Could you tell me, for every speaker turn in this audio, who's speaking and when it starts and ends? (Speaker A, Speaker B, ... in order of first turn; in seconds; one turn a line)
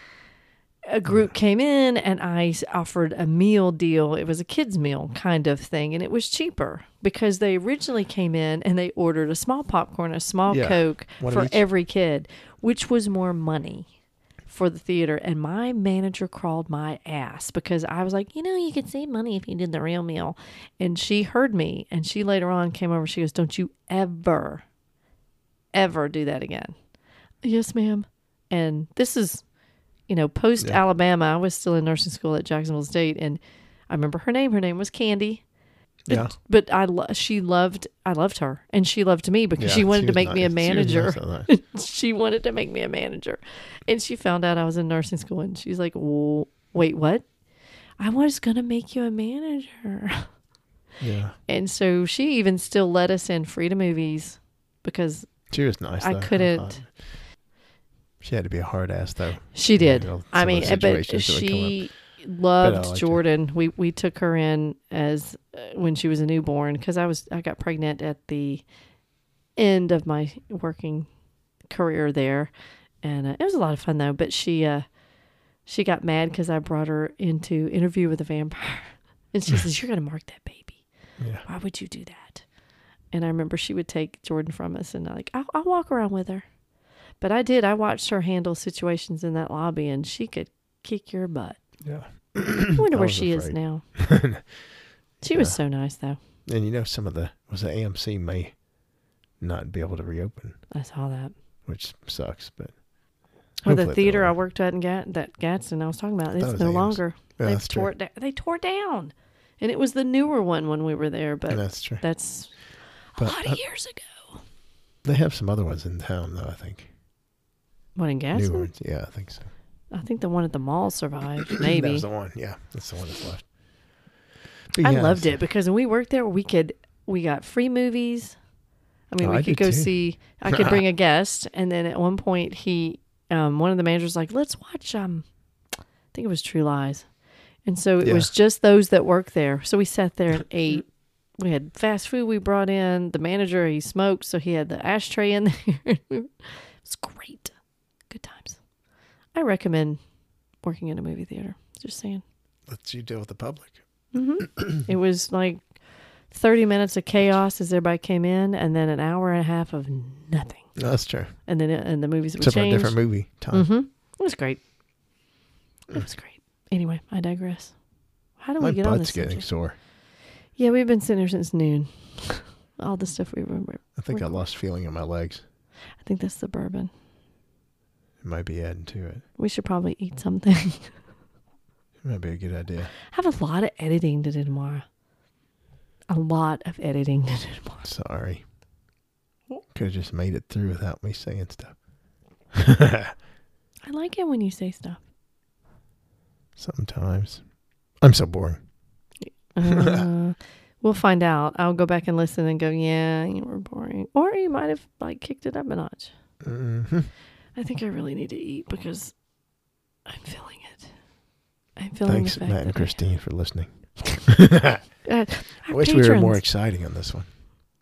Speaker A: 0.9-13.9
Speaker B: 1.1-1.3
Speaker B: 10.5-11.6
Speaker A: 14.5-24.6
Speaker A: 25.7-26.8
Speaker A: 27.4-29.4
Speaker A: 30.1-35.4
Speaker B: 36.0-36.3
Speaker A: 36.1-47.3
Speaker B: 39.6-41.5
Speaker A: 48.0-50.3
Speaker B: 51.0-51.4
Speaker A: 51.5-56.9
Speaker B: 55.5-57.2
Speaker B: 58.2-61.9
Speaker A: 59.5-68.6
Speaker B: 62.6-63.2
Speaker A: 69.6-71.1
Speaker A: 71.7-72.5
Speaker A: 73.0-74.9
Speaker A: 75.7-80.8
Speaker B: 81.2-81.5
Speaker A: 81.4-82.5
Speaker A: 83.1-86.5
Speaker A: 87.2-91.6
Speaker B: 91.8-94.6
Speaker A: 92.8-93.9
Speaker A: 95.2-96.2
Speaker B: 95.3-95.6
Speaker B: 96.5-98.6
Speaker B: 99.4-100.6
Speaker A: 100.7-101.3
Speaker B: 101.7-102.8
Speaker B: 103.6-104.3
Speaker A: 103.6-112.6
Speaker B: 106.4-107.9
Speaker B: 111.5-112.0
Speaker A: 113.1-114.4
Speaker B: 113.2-113.6
Speaker B: 115.0-116.9
Speaker A: 118.0-118.7
Speaker B: 118.3-119.5
Speaker A: 119.9-122.1
Speaker B: 121.6-123.5
Speaker B: 124.7-125.4
Speaker A: 124.8-128.4
Speaker A: 129.1-135.3
Speaker B: 129.2-130.0
Speaker B: 130.5-130.8
Speaker A: 136.1-137.1
Speaker A: 137.7-140.9
Speaker B: 138.0-138.3
Speaker A: 141.4-147.6
Speaker A: 148.1-148.6
Speaker A: 149.3-150.0
Speaker A: 150.6-152.2
Speaker B: 152.7-153.8
Speaker A: 154.1-155.7
Speaker A: 156.3-160.7
Speaker B: 160.8-161.4
Speaker A: 161.4-164.6
Speaker B: 162.4-163.7
Speaker A: 165.9-167.8
Speaker A: 168.4-169.5
Speaker B: 168.6-169.8
Speaker A: 170.6-174.4
Speaker B: 173.9-175.4
Speaker A: 176.0-176.9
Speaker B: 178.2-179.2
Speaker A: 179.4-180.9
Speaker B: 182.0-182.9
Speaker A: 183.1-184.8
Speaker A: 186.1-187.8
Speaker B: 187.8-188.4
Speaker B: 189.7-191.8
Speaker B: 192.5-193.1
Speaker A: 193.8-195.0
Speaker B: 196.6-197.4
Speaker B: 198.0-198.7
Speaker A: 199.2-206.1
Speaker B: 199.7-200.1
Speaker B: 206.4-207.1
Speaker A: 207.6-209.2
Speaker A: 210.1-211.0
Speaker A: 211.8-213.0
Speaker B: 212.1-214.9
Speaker A: 215.1-216.4
Speaker B: 215.7-217.4